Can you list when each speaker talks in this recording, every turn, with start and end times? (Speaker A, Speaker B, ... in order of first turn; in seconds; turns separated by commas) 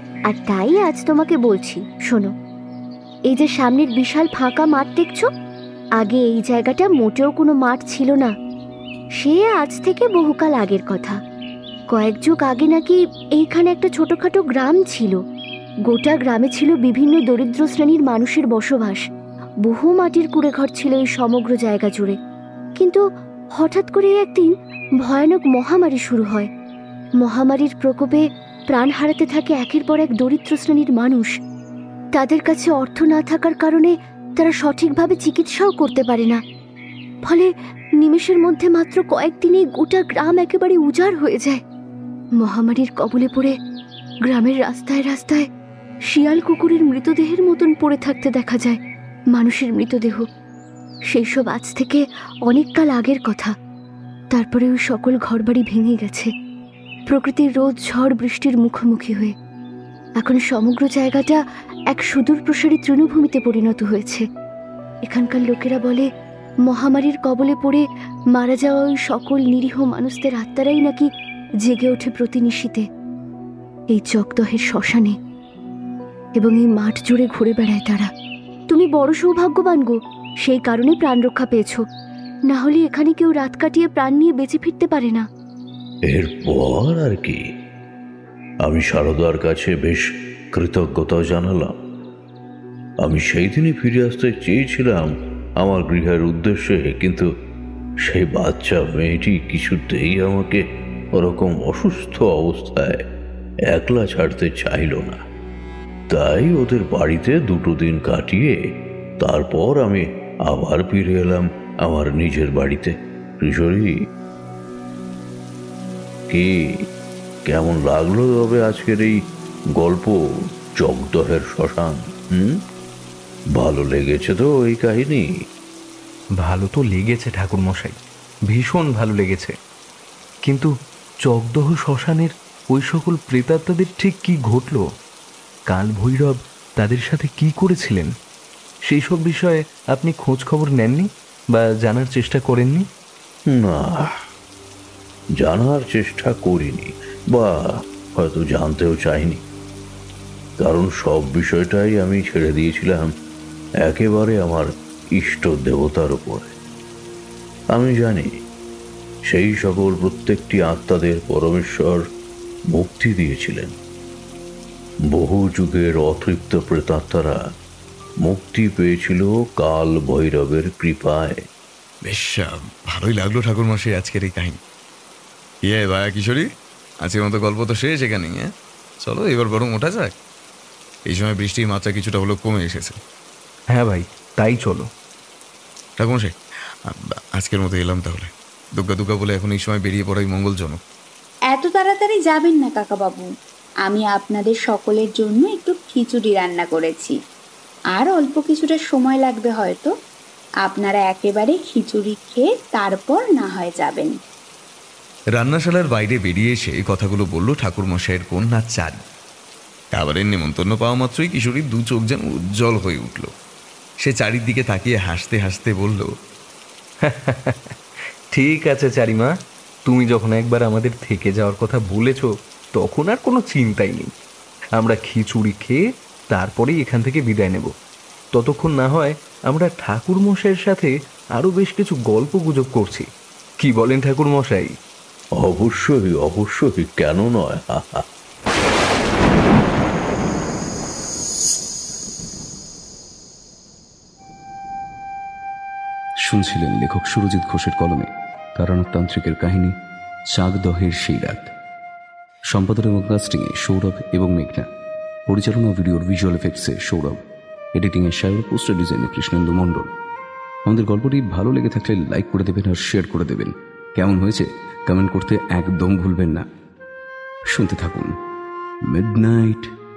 Speaker A: 0.3-2.3, Speaker A: 3.3-5.3, Speaker A: 6.0-8.3, Speaker A: 9.2-11.2, Speaker A: 11.9-15.2, Speaker A: 15.9-19.0, Speaker A: 19.6-22.2, Speaker A: 23.6-26.5, Speaker A: 27.2-31.3, Speaker A: 32.1-36.4, Speaker A: 37.3-41.6, Speaker A: 42.4-43.5, Speaker A: 44.3-45.5, Speaker A: 46.1-48.8, Speaker A: 49.3-50.3, Speaker A: 51.1-53.5, Speaker A: 54.3-56.3, Speaker A: 57.1-59.3, Speaker A: 60.2-61.4, Speaker A: 61.9-64.2, Speaker A: 65.1-66.1, Speaker A: 66.7-71.1, Speaker A: 71.6-72.8, Speaker A: 73.9-75.2, Speaker A: 76.4-78.1, Speaker A: 78.7-81.8, Speaker A: 82.5-85.2, Speaker B: 86.1-87.4, Speaker B: 88.6-91.8, Speaker B: 93.0-97.3, Speaker B: 98.0-100.6, Speaker B: 101.1-103.0, Speaker B: 103.7-105.2, Speaker B: 106.1-108.6, Speaker B: 109.2-114.0, Speaker B: 116.3-116.8, Speaker B: 117.5-119.2, Speaker B: 119.8-120.1, Speaker B: 120.8-122.6, Speaker B: 123.6-125.3, Speaker C: 126.4-128.0, Speaker C: 128.5-129.5, Speaker C: 130.4-130.7, Speaker C: 131.2-134.8, Speaker C: 135.7-138.1, Speaker C: 138.9-142.9, Speaker B: 143.5-144.1, Speaker B: 145.4-149.4, Speaker B: 150.6-153.1, Speaker B: 153.8-156.5, Speaker B: 157.7-158.3, Speaker B: 159.3-162.0, Speaker B: 162.7-163.8, Speaker B: 165.1-167.4, Speaker B: 168.2-171.4, Speaker D: 172.1-174.6, Speaker D: 175.6-176.5, Speaker D: 177.0-178.5, Speaker D: 179.0-180.1, Speaker D: 181.1-183.0, Speaker C: 183.7-184.9, Speaker D: 186.0-186.3, Speaker D: 186.9-190.8, Speaker E: 191.5-193.2, Speaker E: 193.8-197.2, Speaker E: 197.9-199.9, Speaker E: 200.6-204.1, Speaker D: 205.4-209.0, Speaker D: 209.9-213.3, Speaker D: 214.0-216.1, Speaker C: 217.0-217.7, Speaker C: 218.3-219.3, Speaker C: 219.9-224.1, Speaker C: 224.8-225.8, Speaker C: 226.3-227.7, Speaker C: 228.3-233.1, Speaker C: 233.6-234.7, Speaker B: 235.4-238.0, Speaker F: 246.2-249.7, Speaker F: 250.3-251.5, Speaker F: 252.5-254.7, Speaker F: 255.3-257.2, Speaker F: 257.8-259.9, Speaker F: 260.7-266.4, Speaker F: 267.5-268.1, Speaker F: 268.9-269.7